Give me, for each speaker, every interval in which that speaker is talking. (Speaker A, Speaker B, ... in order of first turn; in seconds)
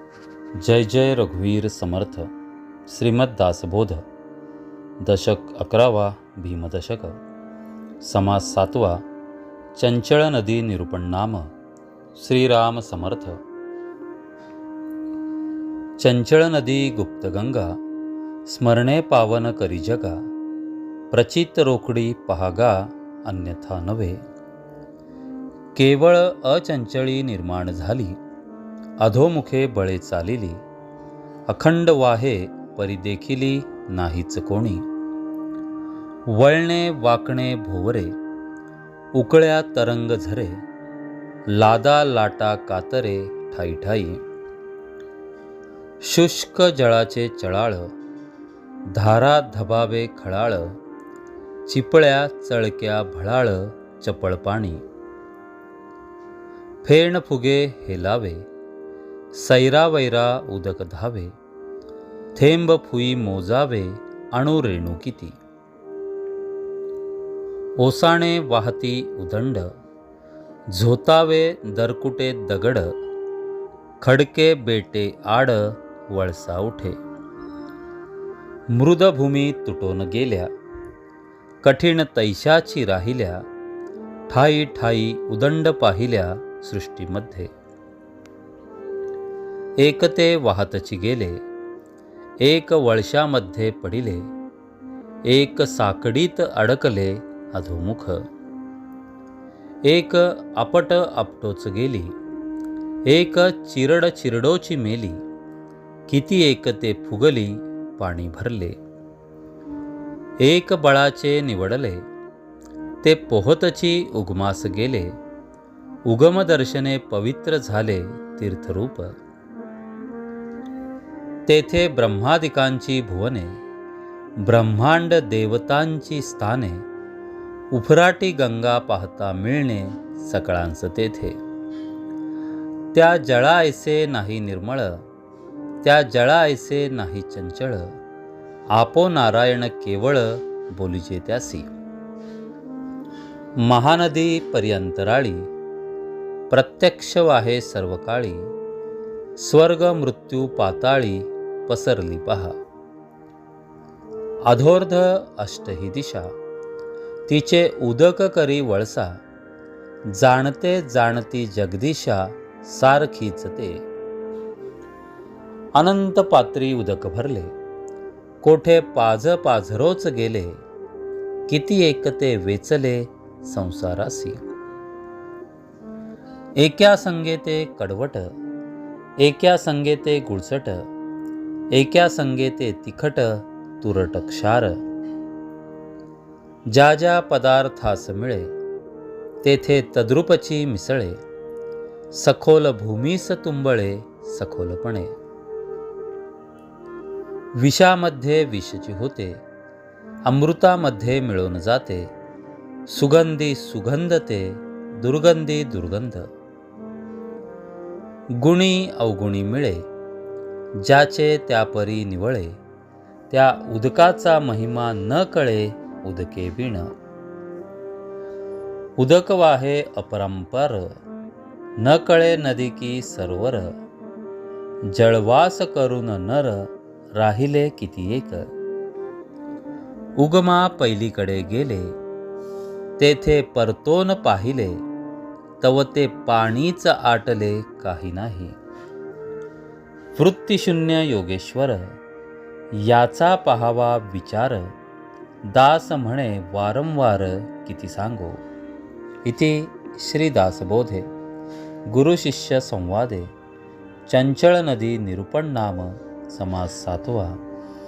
Speaker A: 0.6-2.3, 2.9-4.0, 5.0-7.2, 8.0-9.0, 9.8-11.5, 12.2-13.4, 16.0-17.7, 18.5-20.2, 21.1-24.2, 25.7-28.2, 29.0-30.6, 31.5-34.8, 36.3-38.1, 39.1-40.6, 41.5-44.2, 46.0-47.9, 48.9-50.7, 51.6-54.8, 56.8-58.5, 59.3-61.3, 62.3-65.4, 67.8-69.7, 70.7-72.9, 74.0-77.0, 78.7-80.5, 81.6-83.4, 84.3-87.5, 89.8-91.4, 92.4-94.2, 95.3-98.2, 99.9-102.1, 103.1-105.2, 106.1-108.8, 110.4-112.0, 113.0-115.1, 116.1-119.2, 121.5-123.6, 124.4-126.8, 127.7-131.3, 132.9-135.0, 135.8-137.9, 138.7-141.7, 143.6-145.5, 146.5-148.5, 149.4-152.5, 154.5-156.3, 157.3-159.1, 160.1-163.8, 165.8-167.5, 168.4-170.6, 171.5-174.4, 176.6-178.3, 179.2-180.8, 181.7-184.8, 186.7-188.5, 189.4-191.2, 192.1-195.1, 197.6-199.4, 200.2-202.1, 202.9-206.3, 208.3-209.8, 210.8-212.6, 213.3-216.9, 219.0-220.9, 221.8-223.7, 224.9-228.5, 230.2-231.9, 233.0-234.8, 235.6-238.6, 240.1-241.9, 242.7-244.7, 245.4-248.4, 249.2-251.1, 251.9-253.3, 254.1-257.4